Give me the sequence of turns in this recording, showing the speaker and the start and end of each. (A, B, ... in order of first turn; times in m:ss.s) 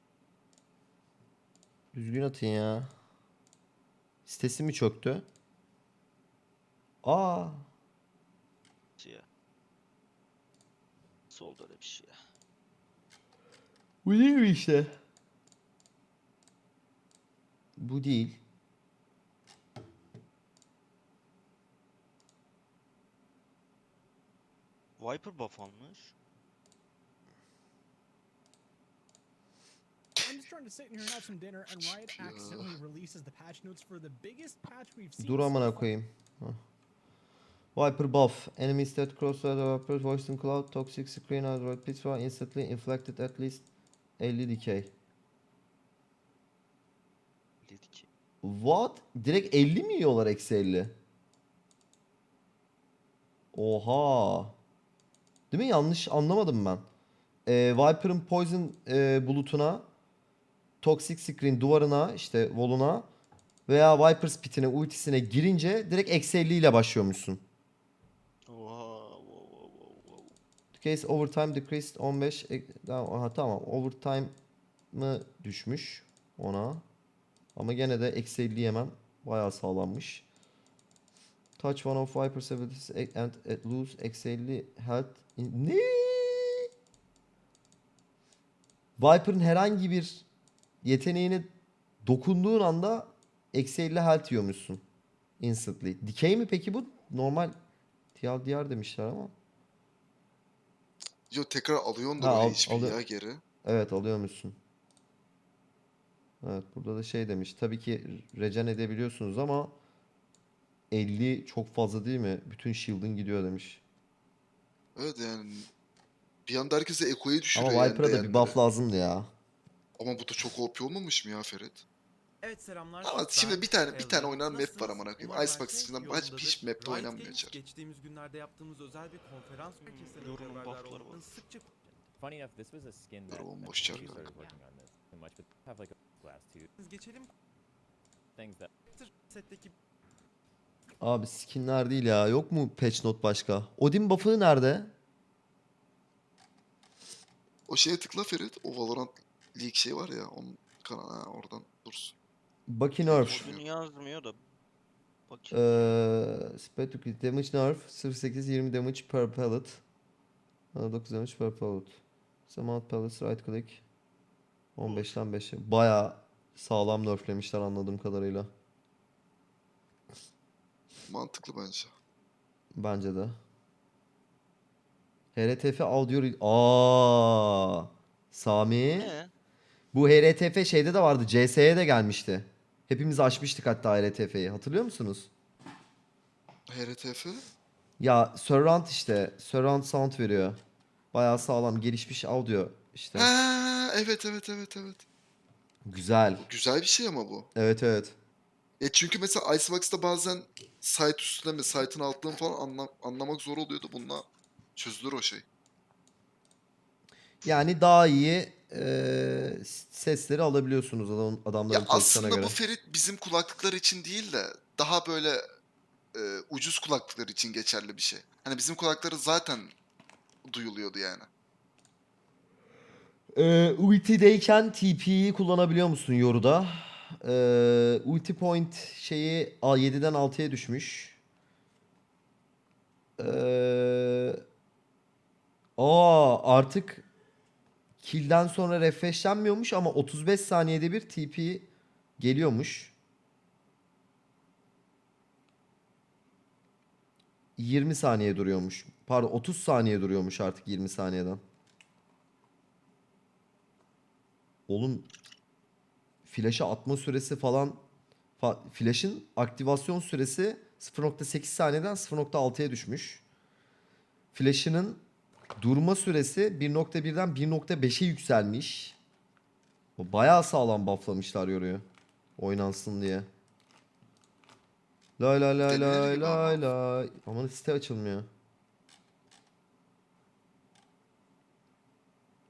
0:01.9-0:02.9 A
0:04.3-0:05.2 A
0:07.0-0:07.7 A
0:09.0-0:09.3 B
0:11.3-0:12.2 B
0:14.0-0:14.9 A
0:17.8-0:18.4 A
0:25.0-0:26.1 B
0:30.2-0:35.9 C
0:31.7-0:32.8 D
0:35.2-0:36.6 A
0:37.7-0:43.7 A
0:44.2-0:44.9 A
0:47.6-0:48.1 B
0:48.4-0:51.0 A
0:53.5-0:54.6 A
0:55.5-0:56.8 A
0:57.4-0:59.9 A
1:00.8-1:03.1 A
1:03.7-1:07.4 A
1:08.4-1:10.4 B
1:10.7-1:14.3 A
1:14.9-1:16.8 A
1:17.6-1:20.3 A
1:21.6-1:26.7 A
1:29.0-1:30.2 A
1:30.8-1:31.5 A
1:32.0-1:34.8 A
1:35.4-1:37.6 A
1:38.1-1:39.3 A
1:41.3-1:43.4 D
1:42.2-1:43.0 A
1:43.6-1:44.6 A
1:46.4-1:49.8 A
1:50.9-1:53.8 A
1:55.0-1:55.7 D
1:56.4-1:58.6 D
1:57.6-1:59.3 A
2:00.0-2:01.8 D
2:02.4-2:11.7 E
2:03.0-2:07.6 D
2:09.9-2:11.3 B
2:11.8-2:16.7 F
2:13.3-2:14.3 D
2:13.9-2:14.5 C
2:16.8-2:17.3 E
2:18.4-2:18.7 F
2:18.9-2:19.7 E
2:21.0-2:24.9 A
2:27.7-2:32.1 D
2:32.7-2:33.4 A
2:33.0-2:34.4 B
2:33.1-2:33.6 D
2:35.3-2:36.0 B
2:35.5-2:39.8 A
2:40.7-2:43.8 A
2:44.8-2:48.5 A
2:51.1-2:51.9 D
2:52.7-2:53.4 A
2:55.3-2:59.1 A
2:58.9-2:59.3 B
2:59.9-3:05.3 A
3:06.7-3:07.4 D
3:08.0-3:10.6 A
3:11.1-3:13.3 A
3:13.1-3:15.0 D
3:15.8-3:16.4 A
3:16.4-3:17.5 D
3:17.6-3:18.2 A
3:18.8-3:25.4 D
3:27.4-3:32.6 A
3:31.7-3:35.4 D
3:36.1-3:39.7 D
3:40.5-3:41.3 D
3:43.3-3:51.2 A
3:53.2-3:54.4 A
3:55.8-3:57.0 A
3:58.0-4:01.7 A
4:02.2-4:02.9 A
4:07.6-4:11.4 A
4:14.7-4:15.1 A
4:16.2-4:17.8 A
4:18.4-4:23.2 A
4:24.3-4:25.0 A
4:25.6-4:29.0 A
4:30.0-4:31.8 A
4:32.4-4:33.2 A
4:35.2-4:38.3 A
4:35.6-4:36.6 D